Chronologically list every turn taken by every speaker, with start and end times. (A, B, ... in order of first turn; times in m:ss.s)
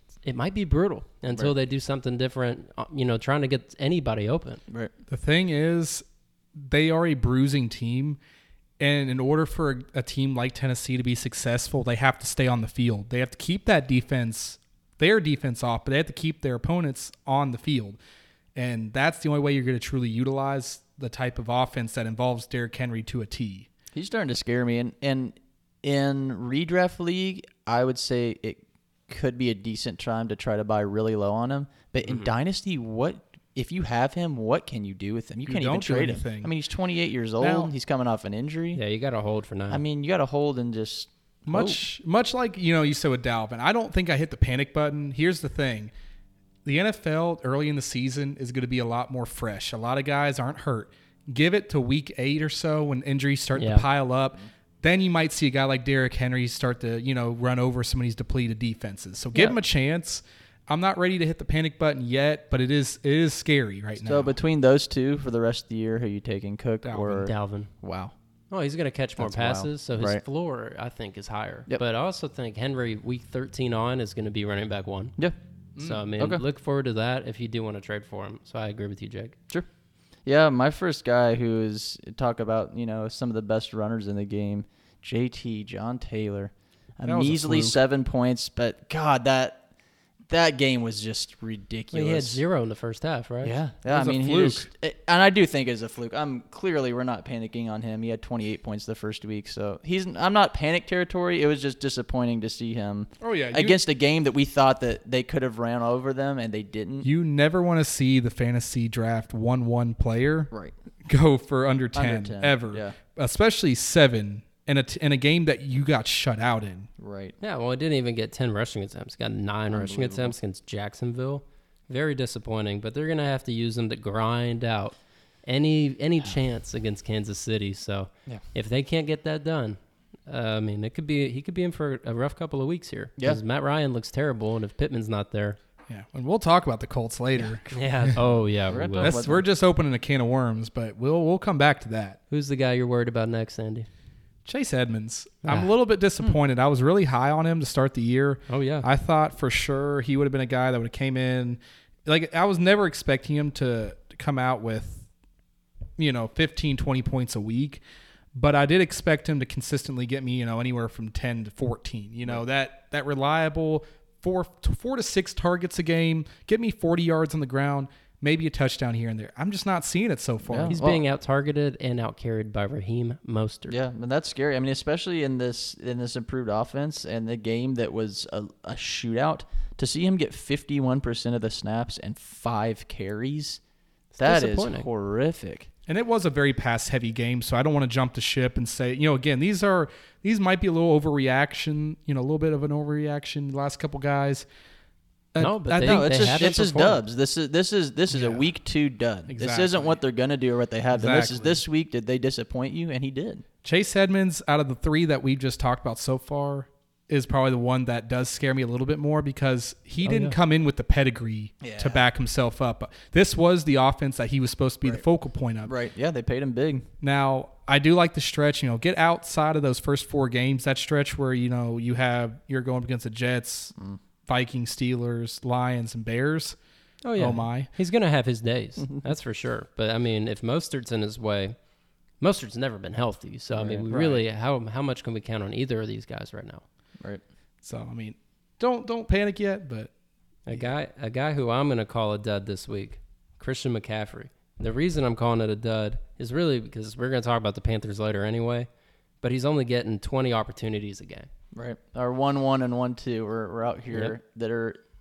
0:00.2-0:04.6 A
0:05.1-0:08.2 B
0:08.8-0:18.0 B
0:18.5-0:23.7 B
0:23.9-0:38.8 C
0:35.4-0:36.5 B
0:37.4-0:37.7 B
0:38.7-0:39.8 A
0:39.7-0:41.8 C
0:41.5-0:45.9 B
0:46.6-1:04.4 B
0:53.6-0:53.8 A
1:04.0-1:08.1 C
1:06.8-1:07.2 B
1:07.2-1:07.7 A
1:08.5-1:15.2 A
1:09.2-1:10.2 C
1:15.8-1:16.1 B
1:15.8-1:19.4 A
1:16.2-1:16.4 C
1:20.2-1:29.6 C
1:27.0-1:27.8 B
1:30.3-1:32.4 C
1:31.9-1:33.5 A
1:33.4-1:47.1 C
1:33.9-1:34.7 B
1:43.2-1:43.8 B
1:47.0-1:50.5 B
1:51.0-1:56.9 B
1:51.9-1:52.9 C
1:57.0-1:57.3 C
1:57.4-2:04.9 A
1:59.7-2:00.4 C
2:05.4-2:15.6 A
2:15.9-2:18.2 B
2:17.4-2:17.8 C
2:17.7-2:19.2 A
2:18.7-2:19.4 C
2:19.0-2:22.2 B
2:22.3-2:23.9 A
2:24.4-2:35.1 B
2:25.4-2:25.7 A
2:28.5-2:28.9 A
2:36.0-2:37.8 B
2:38.3-2:50.8 B
2:50.4-2:51.0 C
2:50.7-2:53.8 A
2:53.7-3:03.6 C
3:04.1-3:04.9 A
3:04.2-3:05.7 C
3:05.9-3:14.5 B
3:15.3-3:16.4 B
3:15.4-3:17.0 A
3:15.8-3:23.4 C
3:18.1-3:18.4 B
3:19.3-3:20.0 B
3:20.9-3:21.6 B
3:23.6-3:35.7 B
3:30.0-3:30.3 A
3:31.6-3:32.0 C
3:35.6-3:36.9 C
3:37.0-3:43.7 B
3:44.2-3:46.6 B
3:47.0-3:51.5 A
3:47.2-3:47.7 B
3:52.2-3:56.6 A
3:53.5-3:54.2 C
3:57.6-3:59.9 B
4:00.5-4:08.7 A
4:09.2-4:11.3 A
4:11.5-4:14.8 C